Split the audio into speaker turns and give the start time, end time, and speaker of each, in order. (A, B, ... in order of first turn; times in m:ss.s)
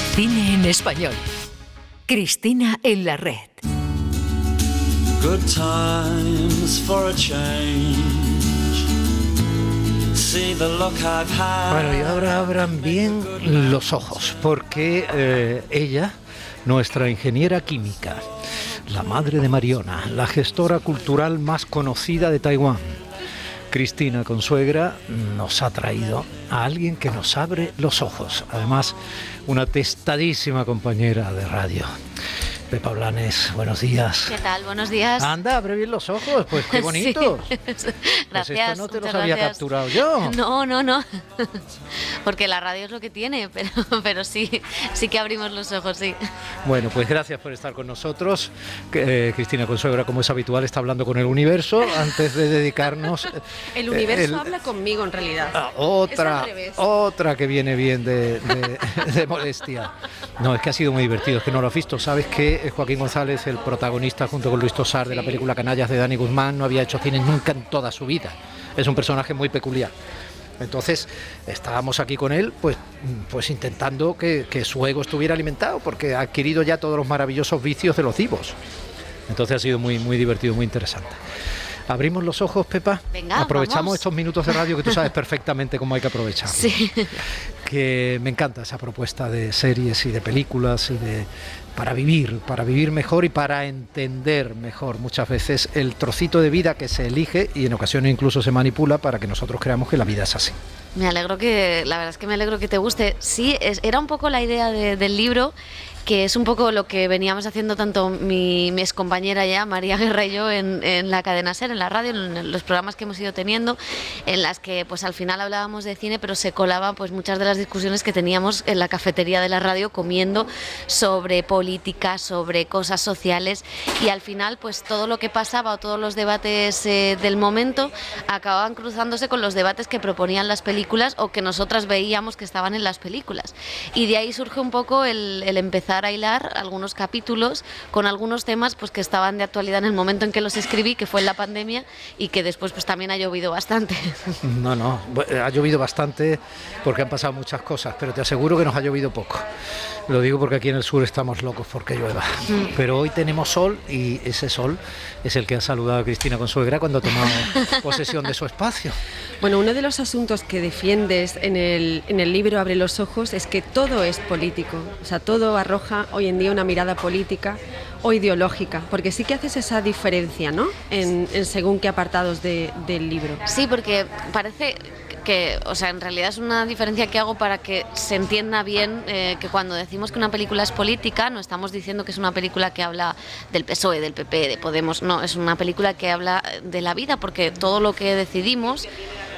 0:00.2-0:01.2 A
0:02.1-0:03.6 A
0:05.2-0:08.4 B
0:10.1-0:12.2 B
0:11.7-0:16.1 C
0:16.6-0:18.2 C
0:18.9-0:23.0 C
0:23.7-0:28.9 C
0:29.5-0:31.9 C
0:32.7-0:34.4 C
0:34.3-0:35.3 D
0:35.2-0:37.5 C
0:36.5-0:41.6 D
0:38.3-0:40.4 C
0:42.2-0:46.2 D
0:46.6-0:54.5 C
0:53.7-0:56.8 E
0:55.5-1:09.9 C
1:10.6-1:18.6 C
1:19.3-1:21.2 C
1:21.9-1:26.7 C
1:23.1-1:24.0 D
1:26.5-1:27.2 D
1:27.7-1:40.6 C
1:41.0-1:45.5 D
1:46.0-2:24.4 D
2:24.4-2:29.4 C
2:30.1-2:39.0 C
2:39.4-2:53.4 E
2:53.5-3:08.9 D